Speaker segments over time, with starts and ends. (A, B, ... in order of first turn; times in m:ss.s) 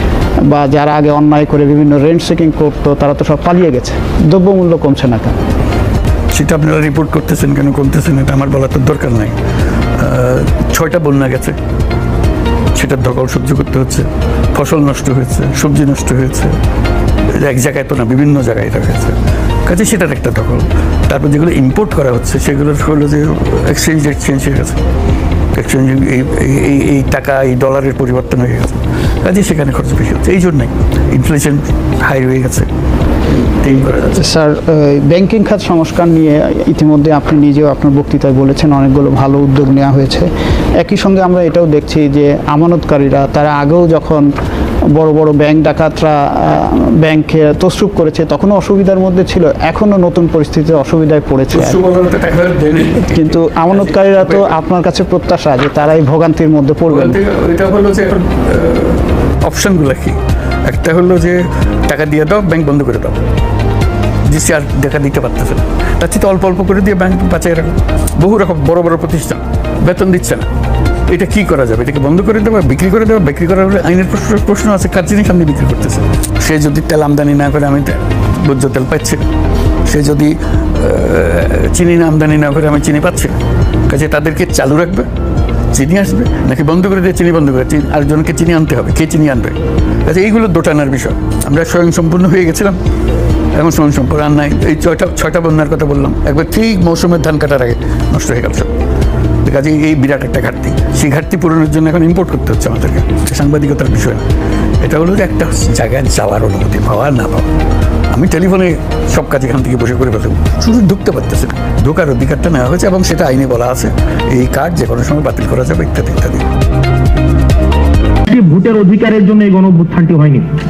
0:00.5-0:05.3 A
0:06.3-0:09.4 B
0:10.0-0:11.6 B
0:12.8-0:16.5 B
0:17.4-0:24.8 B
0:25.5-0:32.7 B
0:33.4-0:34.2 B
0:34.2-0:40.3 A
0:40.8-0:44.2 A
0:45.0-0:51.8 A
0:51.5-0:54.5 B
0:53.0-0:57.2 A
0:56.9-1:03.2 B
1:04.3-1:10.5 B
1:11.1-1:19.2 B
1:19.8-1:23.4 B
1:23.9-1:25.1 B
1:25.7-1:32.8 B
1:33.6-1:38.7 B
1:39.4-1:44.3 B
1:44.8-1:47.5 B
1:48.1-1:56.4 B
1:58.3-2:00.4 C